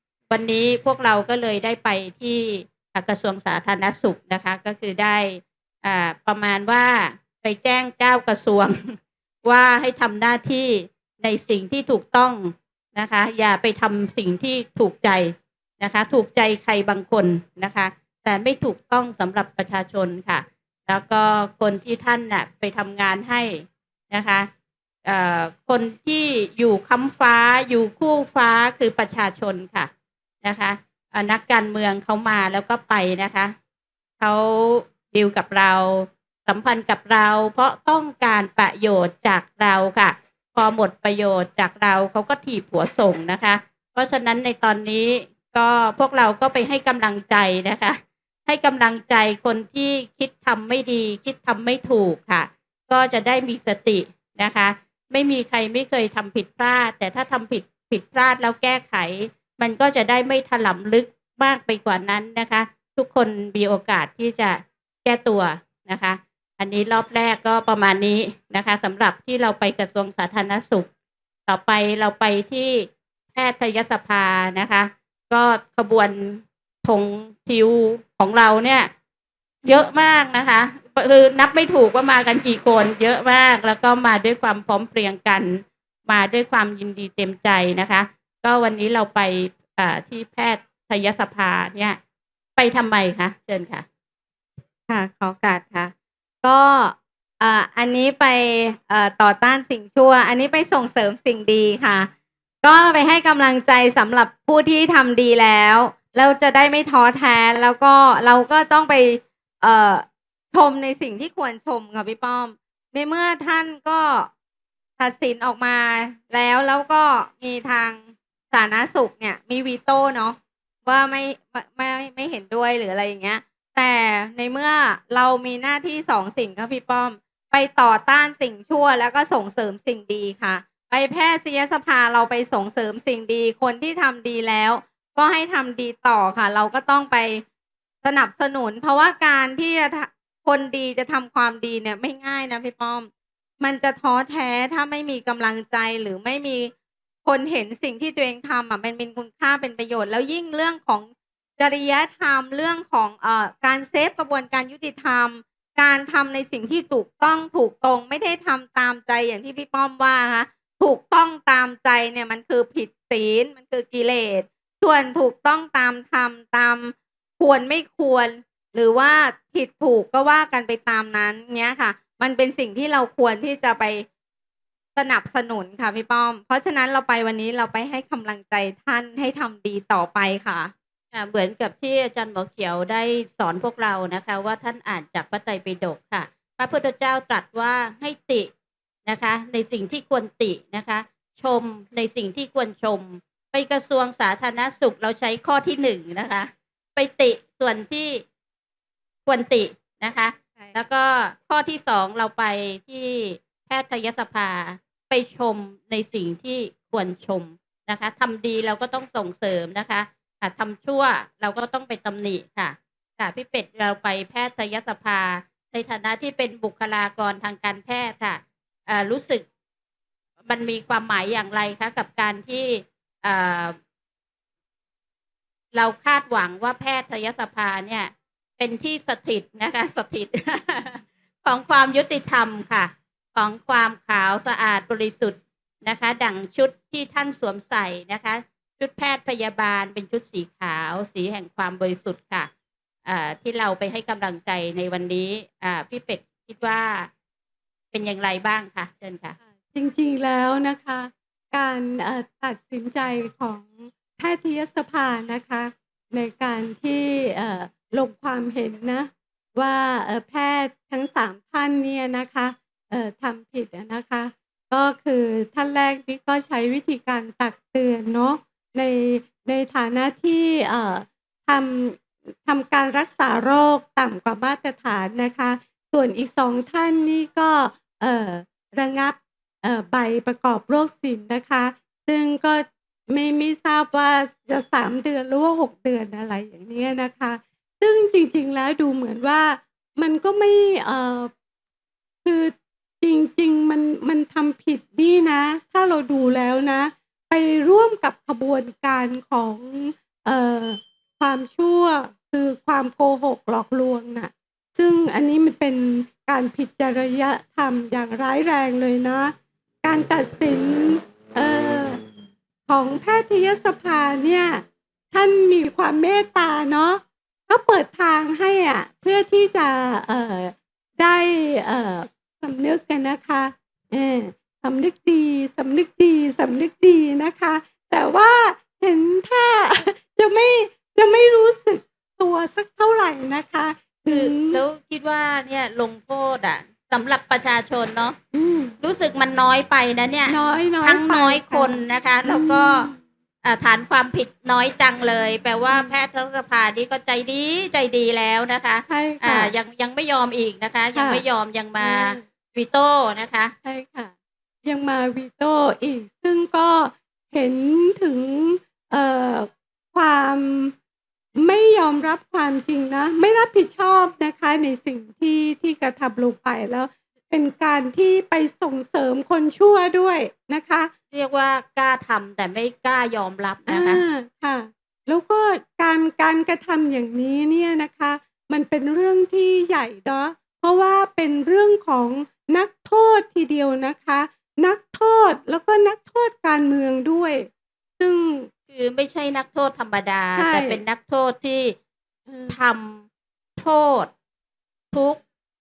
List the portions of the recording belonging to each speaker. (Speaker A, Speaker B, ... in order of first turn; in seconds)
Speaker A: 0.3-24.5, 25.1-29.9, 30.4-33.5, 34.2-70.9, 71.5-78.9, 79.7-92.0, 92.6-93.8, 181.1-188.5, 189.1-198.2, 199.3-219.5, 220.4-223.8, 225.7-242.5, 243.1-247.1, 247.9-249.4, 334.1-338.2, 338.8-342.9, 343.4-353.5, 371.1-374.0, 388.7-391.8, 392.5-393.1, 393.6-394.1, 394.9-395.2
Speaker B: 94.9-102.1, 102.6-114.3, 115.0-137.4, 138.0-143.1, 143.6-146.7, 147.2-174.1, 175.0-180.7
Speaker C: 249.7-291.3, 292.2-312.0, 312.7-334.6, 338.3-338.8, 340.3-343.0, 348.9-349.5, 350.9-351.2, 351.8-352.2, 353.6-354.1, 354.6-360.7, 361.4-370.9, 373.7-388.5, 390.4-390.8, 392.3-392.6